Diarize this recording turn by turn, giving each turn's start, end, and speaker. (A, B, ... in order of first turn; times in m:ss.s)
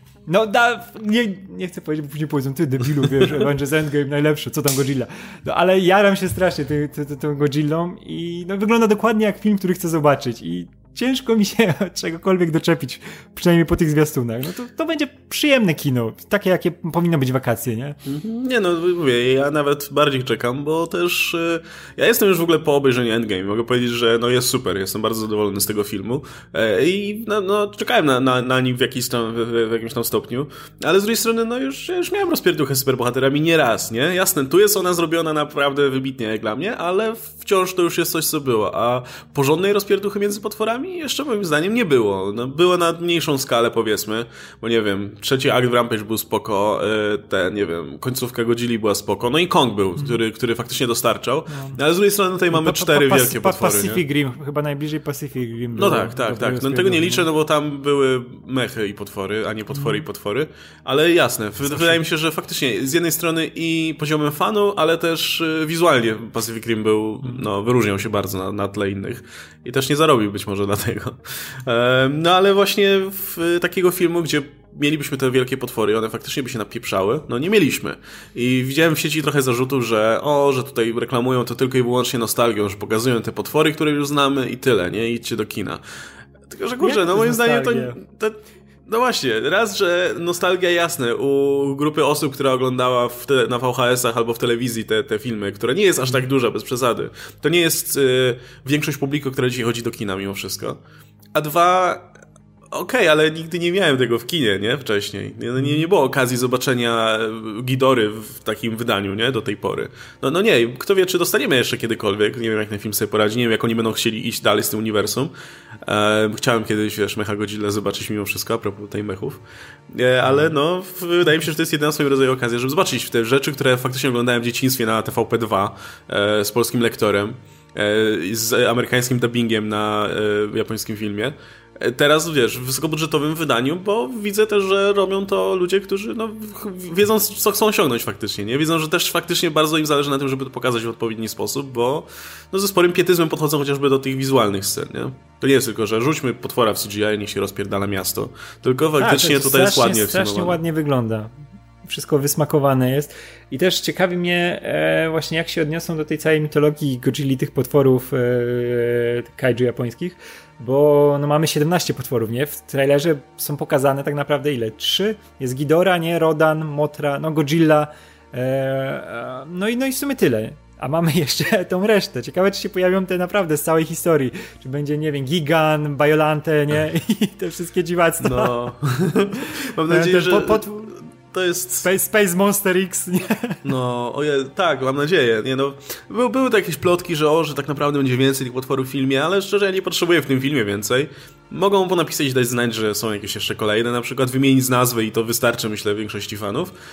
0:00.3-0:18.0 A
0:18.0-0:54.0 B
0:51.5-0:51.8 A
0:52.5-0:57.3 A
0:55.7-1:25.8 B
0:59.7-1:00.0 A
1:01.6-1:02.0 A
1:26.5-1:40.8 B
1:26.8-1:28.0 A
1:41.3-1:42.1 B
1:42.7-1:55.3 B
1:45.6-1:45.8 A
1:55.8-2:30.6 B
2:29.0-2:58.6 A
2:58.2-3:01.9 B
2:59.9-3:00.9 A
3:01.8-3:03.6 A
3:03.6-3:16.7 B